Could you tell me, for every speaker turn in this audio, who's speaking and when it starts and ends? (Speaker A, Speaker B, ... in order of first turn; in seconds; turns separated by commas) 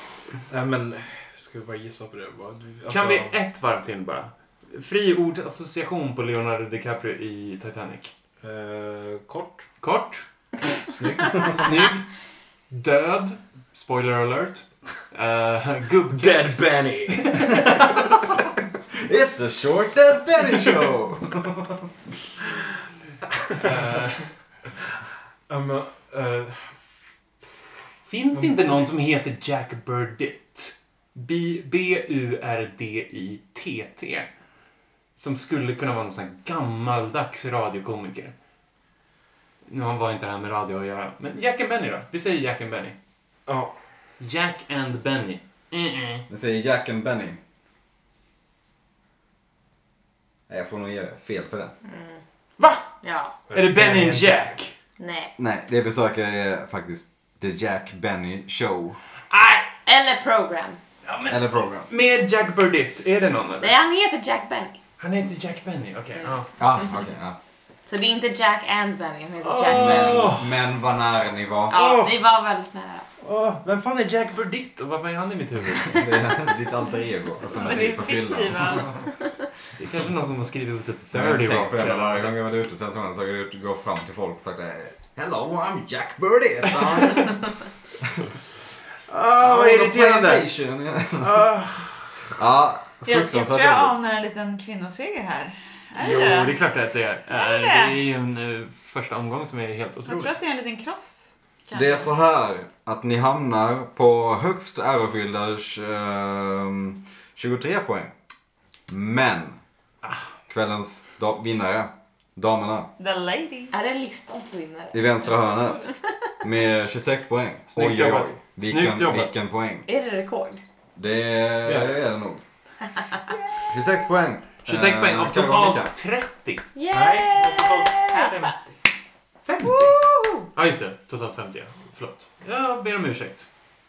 Speaker A: 0.5-3.4, Speaker B: 2.9-8.1, Speaker A: 8.4-9.7, Speaker B: 9.8-10.3, Speaker A: 10.7-11.9, Speaker B: 11.3-12.1, Speaker B: 12.7-17.6, Speaker A: 16.1-17.5, Speaker C: 18.9-21.9, Speaker B: 23.6-24.3, Speaker A: 25.5-26.8, Speaker B: 28.1-34.3, Speaker A: 28.4-28.8, Speaker B: 35.2-38.4, Speaker B: 39.7-43.0, Speaker A: 43.5-43.8, Speaker B: 44.2-46.2, Speaker C: 46.3-47.4, Speaker C: 50.5-51.7, Speaker D: 51.8-52.2, Speaker B: 52.6-52.9, Speaker D: 53.0-53.3, Speaker A: 53.5-54.6, Speaker B: 53.5-54.7, Speaker D: 55.0-55.3, Speaker C: 55.4-59.0, Speaker B: 59.3-59.7, Speaker D: 59.9-60.8, Speaker B: 61.0-63.7, Speaker C: 61.3-61.9, Speaker D: 63.6-64.8, Speaker B: 65.0-66.5, Speaker C: 66.6-67.4, Speaker D: 67.9-70.3, Speaker B: 69.4-70.4, Speaker C: 69.7-71.8, Speaker D: 71.7-73.1, Speaker B: 71.7-72.1, Speaker B: 73.2-76.2, Speaker C: 75.9-78.9, Speaker E: 77.5-79.0, Speaker B: 79.7-82.3, Speaker C: 81.1-88.3, Speaker B: 89.1-90.5, Speaker C: 89.2-91.6, Speaker B: 91.2-92.0, Speaker C: 92.3-94.0, Speaker E: 93.0-96.6, Speaker B: 96.0-100.4, Speaker E: 97.3-98.0, Speaker E: 100.1-102.1, Speaker C: 101.7-108.1, Speaker C: 108.9-109.6, Speaker B: 110.0-110.3, Speaker C: 110.5-112.9, Speaker E: 113.0-113.7, Speaker D: 113.7-116.1, Speaker C: 114.9-115.9, Speaker C: 116.4-119.9, Speaker B: 117.7-119.3, Speaker D: 119.9-120.6, Speaker C: 121.0-122.4, Speaker A: 121.6-122.0, Speaker C: 123.7-125.9, Speaker B: 124.6-126.7, Speaker D: 126.8-128.6, Speaker A: 126.9-128.8, Speaker B: 129.4-130.0, Speaker E: 129.7-130.5, Speaker B: 130.5-133.5